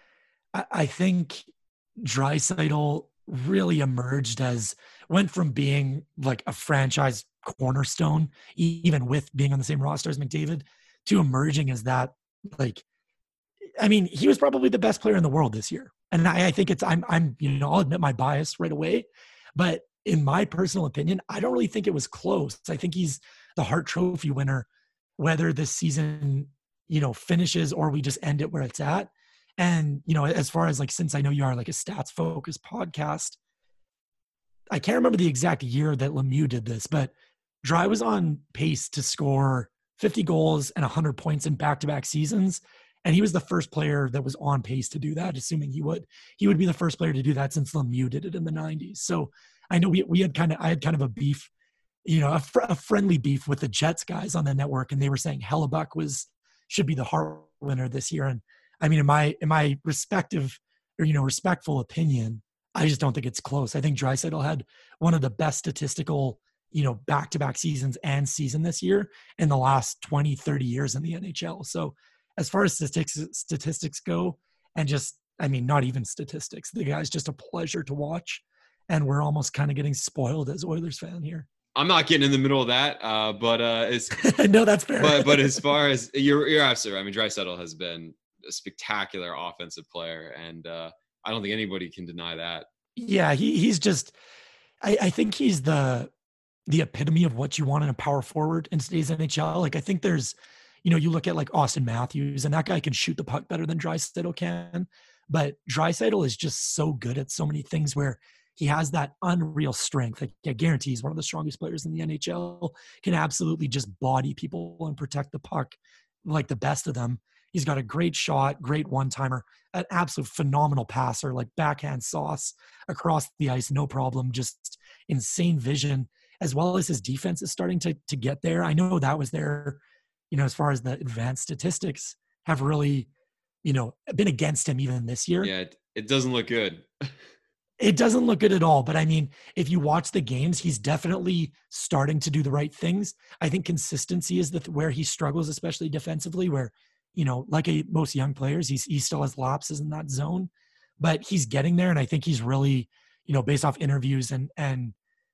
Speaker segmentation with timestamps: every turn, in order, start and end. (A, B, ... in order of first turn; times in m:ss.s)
0:00.5-0:01.5 A
0:02.0-0:12.8 A
0:13.8-0:33.4 A
0:34.7-0:37.1 A
0:37.6-0:51.5 A
0:52.0-1:21.5 A
1:21.7-1:24.2 B
1:24.2-1:25.6 A
1:25.0-1:32.7 B
1:33.0-1:34.1 A
1:34.8-1:36.1 A
1:36.7-2:09.8 A
2:10.3-2:13.1 A
2:13.6-2:15.5 A
2:15.4-2:17.2 B
2:17.8-2:34.9 A